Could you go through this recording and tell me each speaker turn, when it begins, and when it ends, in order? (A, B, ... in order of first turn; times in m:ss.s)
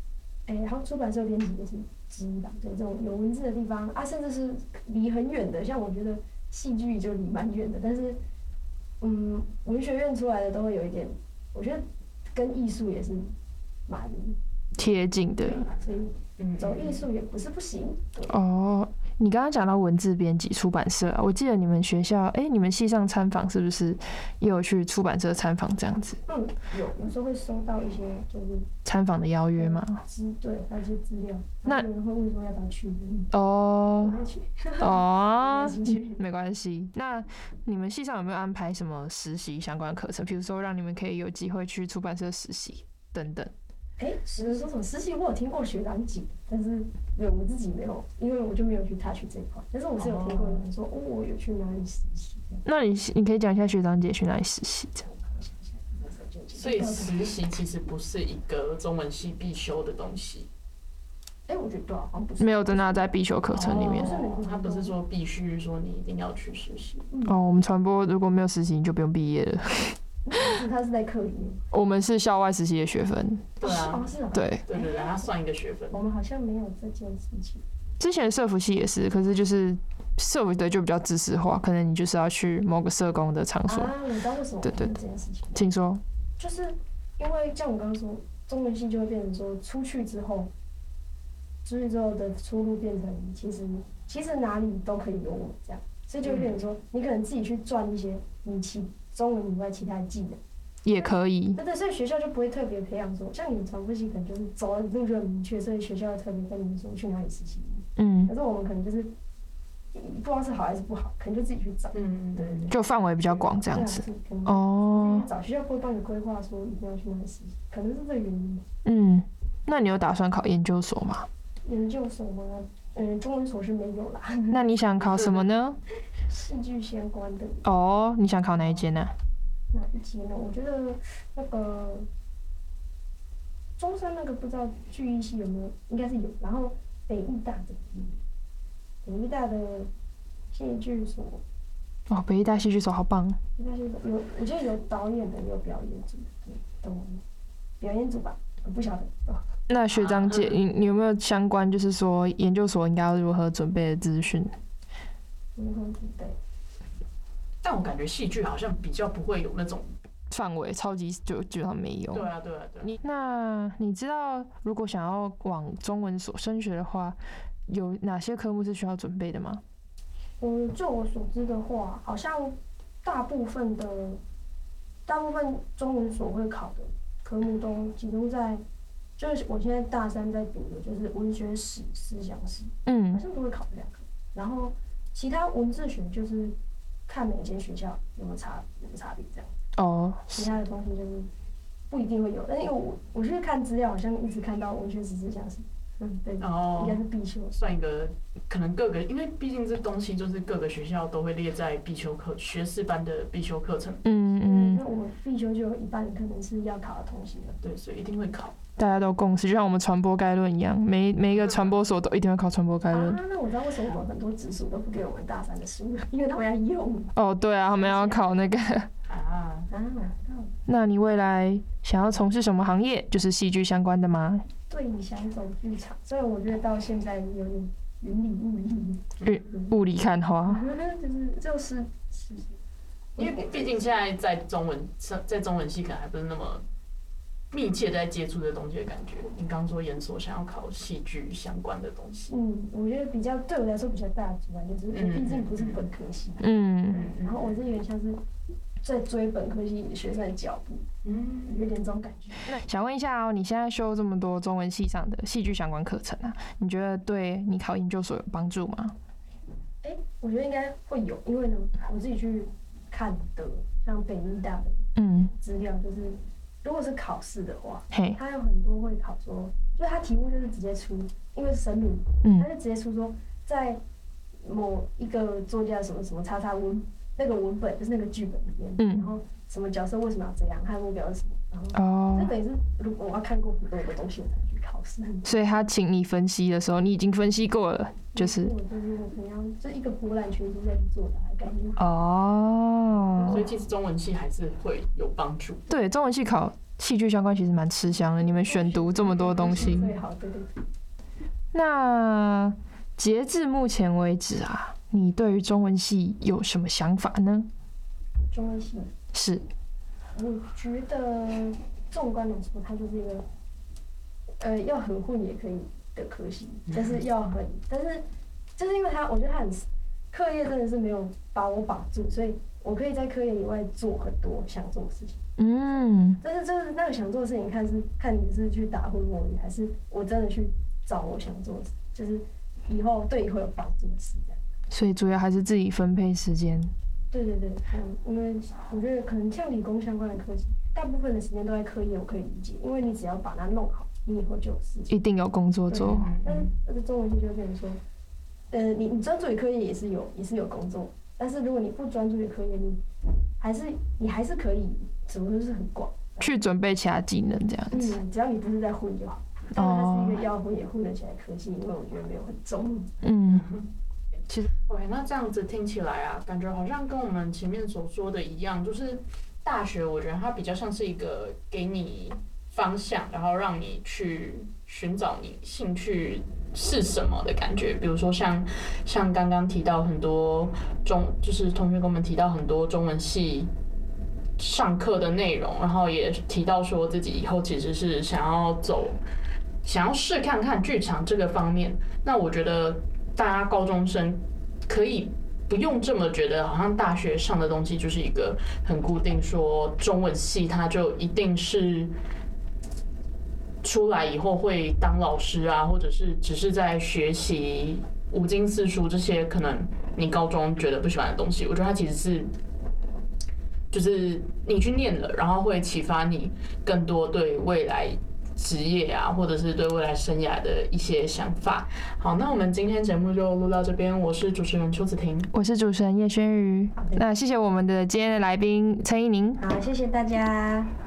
0:00.5-0:08.2 A
0:09.0-0:13.3 A
0:13.9-0:14.4 A
0:14.8-0:15.6 B
0:15.4-0:18.4 A
0:16.4-0:17.1 C
0:18.3-0:26.2 B
0:26.3-0:28.7 A
0:28.8-0:30.0 B
0:29.6-0:33.3 A
0:33.3-0:34.2 B
0:34.0-0:36.2 A
0:34.8-0:43.5 B
0:44.0-0:52.6 A
0:50.0-0:50.7 C
0:52.6-0:55.1 B
0:55.1-0:57.4 A
0:56.5-1:00.5 C
1:01.5-1:03.1 A
1:02.4-1:04.2 B
1:03.5-1:07.1 C
1:03.9-1:04.9 A
1:07.2-1:10.6 B
1:10.3-1:11.6 A
1:11.7-1:13.6 B
1:13.6-1:14.1 C
1:13.6-1:15.3 A
1:14.3-1:14.6 B
1:14.7-1:16.0 C
1:15.9-1:17.6 A
1:18.0-1:23.9 B
1:23.7-1:25.6 A
1:24.6-1:24.9 B
1:25.5-1:26.0 B
1:26.4-1:30.5 A
1:31.6-1:40.4 A
1:36.2-1:36.6 C
1:40.8-1:41.6 B
1:40.9-1:49.1 A
1:48.0-1:48.3 B
1:49.9-1:52.7 A
1:51.9-1:52.7 C
1:52.7-1:55.3 B
1:53.6-1:58.6 A
1:58.8-2:01.3 B
2:01.6-2:04.6 A
2:04.5-2:05.8 B
2:06.1-2:07.6 A
2:07.6-2:09.1 B
2:09.7-2:12.1 A
2:13.8-2:18.2 A
2:19.0-2:19.9 A
2:20.5-2:21.4 A
2:22.1-2:23.4 B
2:23.6-2:27.2 A
2:27.8-2:29.5 A
2:29.7-2:34.6 B
2:29.9-2:30.6 C
2:35.6-2:36.4 A
2:37.6-2:39.9 C
2:40.3-2:42.3 B
2:42.1-2:43.0 C
2:42.8-2:49.6 B
2:50.4-2:54.2 A
2:55.1-2:58.6 A
2:59.2-3:06.6 A
3:02.9-3:03.2 B
3:07.1-3:09.5 A
3:09.8-3:10.5 B
3:10.3-3:11.3 A
3:11.9-3:17.6 A
3:16.4-3:24.0 C
3:24.0-3:24.8 B
3:24.3-3:27.6 A
3:27.6-3:28.6 C
3:28.8-3:33.2 B
3:31.4-3:31.7 C
3:32.9-3:38.3 A
3:37.2-3:38.9 B
3:39.1-3:39.7 C
3:39.7-3:40.5 A
3:40.7-3:44.4 B
3:44.7-3:49.7 A
3:49.2-3:50.6 B
3:50.5-3:52.6 A
3:53.2-3:53.9 A
3:53.2-3:56.6 C
3:57.5-4:02.3 C
4:02.3-4:08.2 A
4:04.9-4:05.8 C
4:06.4-4:07.1 B
4:06.9-4:07.6 C
4:08.8-4:10.9 A
4:11.0-4:11.7 C
4:11.4-4:12.5 A
4:12.4-4:19.0 B
4:19.8-4:33.8 A
4:25.0-4:25.3 B
4:27.9-4:28.2 B
4:34.4-4:45.3 A
4:38.8-4:39.1 B
4:41.7-4:42.3 B
4:45.2-4:48.5 B
4:48.1-4:51.8 A
4:51.8-4:53.5 B
4:53.2-4:53.5 A
4:53.2-4:55.7 C
4:55.7-4:59.9 B
4:58.2-5:00.6 A
4:59.2-4:59.9 C
5:01.5-5:07.5 B
5:08.3-5:08.9 A
5:09.1-5:09.5 B
5:10.1-5:13.2 A
5:14.4-5:18.0 A
5:16.7-5:17.0 C
5:18.6-5:25.2 A
5:25.4-5:26.2 B
5:26.2-5:34.4 A
5:34.7-5:36.7 B
5:37.1-5:44.9 A
5:44.9-5:46.1 B
5:45.7-5:46.5 C
5:46.1-5:47.8 A
5:48.5-5:52.8 A
5:53.4-5:56.3 A
5:56.2-5:58.0 B
5:57.7-6:03.0 A
5:59.5-6:00.2 B
6:03.0-6:03.5 B
6:03.3-6:03.7 C
6:04.5-6:23.5 C
6:24.4-6:29.0 C
6:29.6-6:41.9 C
6:43.6-6:52.4 C
6:53.7-7:05.3 C
7:05.3-7:09.4 B
7:06.8-7:07.0 A
7:09.4-7:10.7 A